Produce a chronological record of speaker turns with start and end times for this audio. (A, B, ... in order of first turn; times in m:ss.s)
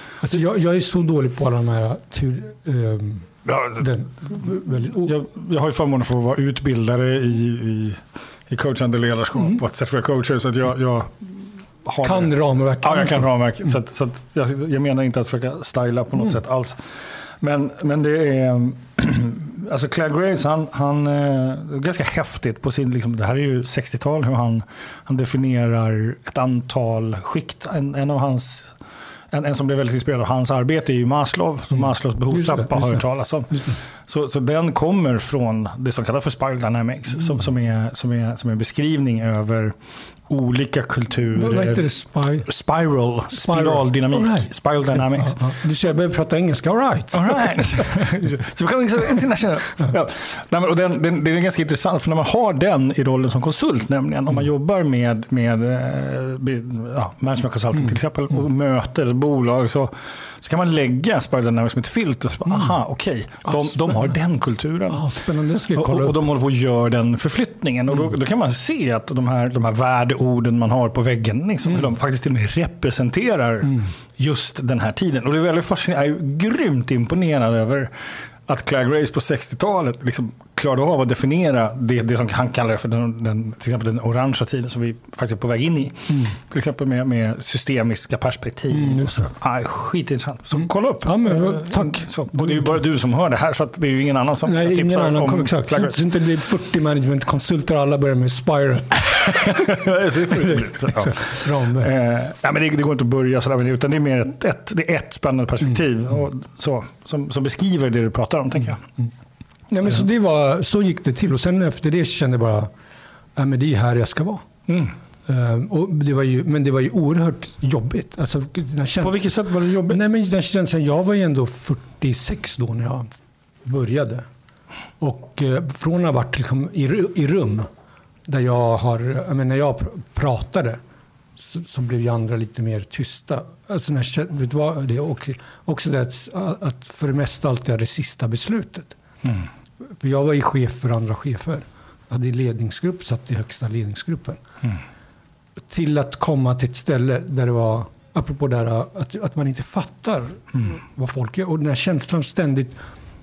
0:00.2-0:05.2 A
0:03.5-0:03.8 B
0:05.0-0:28.8 B
0:12.0-0:13.3 A
0:29.3-0:39.8 B
0:32.3-0:33.8 A
0:40.3-0:41.8 B
0:41.3-0:42.5 A
0:42.4-0:45.4 B
0:43.3-0:48.2 A
0:47.1-1:05.0 B
1:04.9-1:06.2 A
1:05.7-1:17.9 B
1:18.5-1:36.0 B
1:26.1-1:26.4 A
1:28.7-1:29.3 A
1:30.6-1:32.8 A
1:34.4-1:41.9 A
1:39.2-1:48.9 B
1:49.7-1:52.7 A
1:53.4-1:54.4 A
1:54.7-1:55.0 B
1:55.3-2:03.1 A
1:59.0-2:00.0 B
2:03.6-2:04.3 A
2:05.0-2:07.7 A
2:08.3-2:10.8 A
2:11.4-2:19.0 A
2:19.8-2:24.4 A
2:25.6-2:32.8 A